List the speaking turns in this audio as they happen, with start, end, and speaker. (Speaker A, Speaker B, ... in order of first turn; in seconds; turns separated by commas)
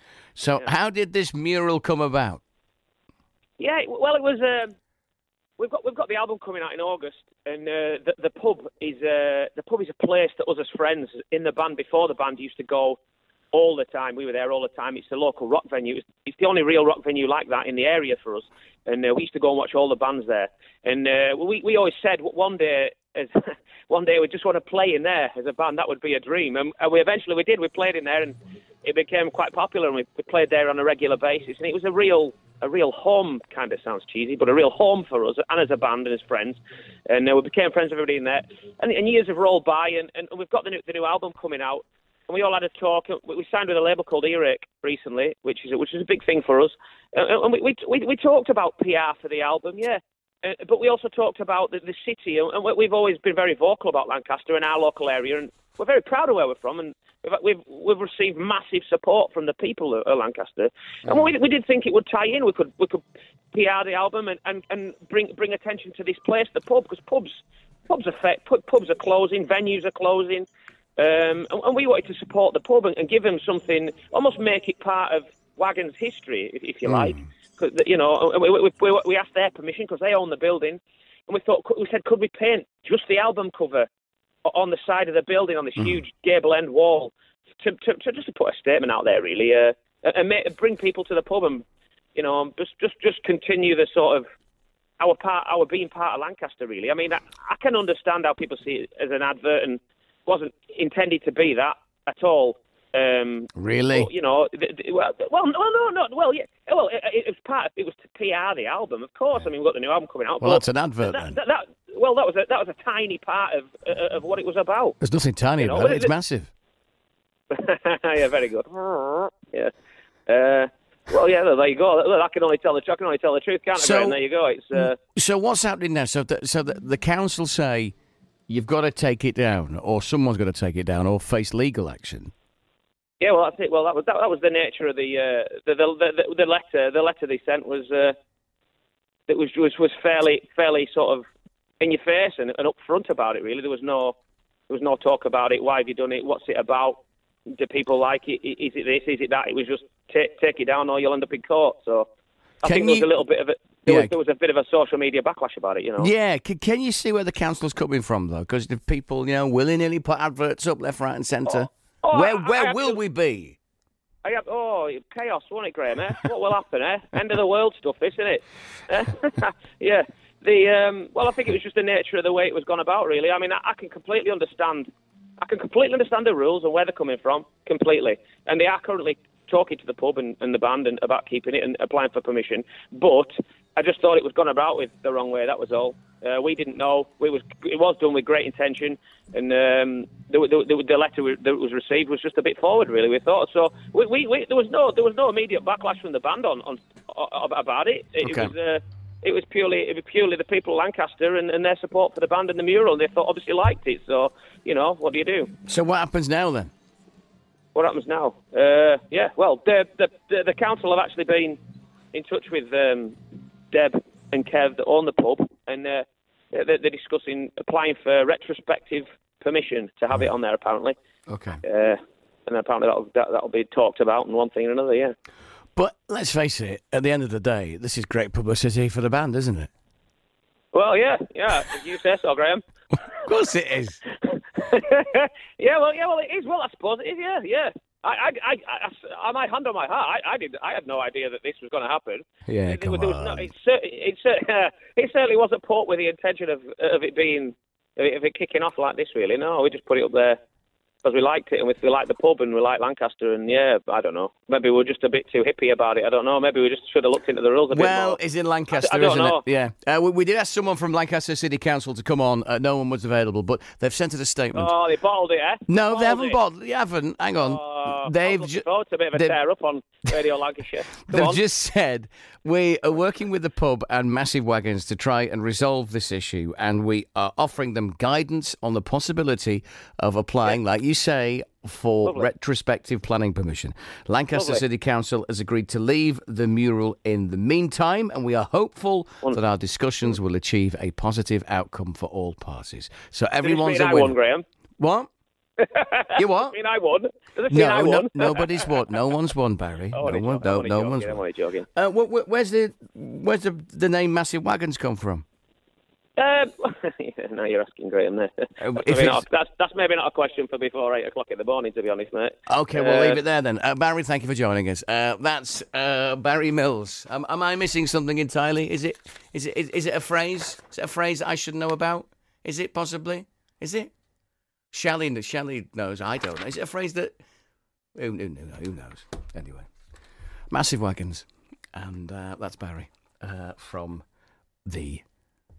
Speaker A: 0.3-2.4, Speaker B: 3.6-4.7, Speaker B: 5.6-13.0, Speaker B: 13.5-63.0, Speaker B: 63.5-83.9, Speaker A: 76.9-77.2, Speaker B: 84.5-94.2, Speaker B: 95.0-115.0, Speaker A: 103.5-104.1, Speaker A: 110.4-111.4, Speaker A: 115.0-116.5, Speaker B: 115.6-116.1, Speaker B: 117.5-119.7, Speaker B: 120.3-125.0, Speaker A: 123.8-124.2, Speaker A: 124.8-127.9, Speaker A: 128.5-132.3, Speaker B: 133.2-138.1, Speaker B: 139.3-141.2, Speaker B: 141.8-144.1, Speaker B: 144.7-147.0, Speaker B: 147.5-152.1, Speaker B: 152.6-156.1, Speaker A: 152.6-153.1, Speaker A: 153.9-154.1, Speaker A: 156.0-163.6, Speaker B: 161.5-163.0, Speaker B: 164.2-205.5, Speaker A: 198.2-198.5, Speaker A: 205.7-206.7, Speaker B: 207.7-211.6, Speaker B: 212.1-213.2, Speaker B: 213.7-220.9, Speaker A: 221.3-221.6, Speaker B: 221.6-225.1, Speaker A: 225.8-229.7, Speaker B: 230.7-233.1, Speaker A: 233.1-234.0, Speaker B: 234.2-250.4, Speaker A: 242.5-243.5, Speaker B: 251.0-258.2, Speaker A: 257.7-264.7, Speaker B: 258.7-259.4, Speaker B: 264.5-266.4, Speaker A: 265.7-269.4, Speaker B: 267.4-271.4, Speaker A: 271.1-294.1, Speaker B: 284.3-284.6, Speaker B: 293.4-294.4, Speaker A: 294.8-295.1, Speaker B: 295.6-298.7, Speaker A: 296.1-296.5, Speaker A: 297.5-301.2, Speaker B: 299.9-301.7, Speaker A: 301.7-305.2, Speaker B: 306.2-313.2, Speaker A: 308.6-309.2, Speaker A: 312.5-323.9, Speaker A: 324.7-327.1, Speaker A: 327.9-329.7, Speaker A: 330.5-334.0, Speaker A: 334.6-335.0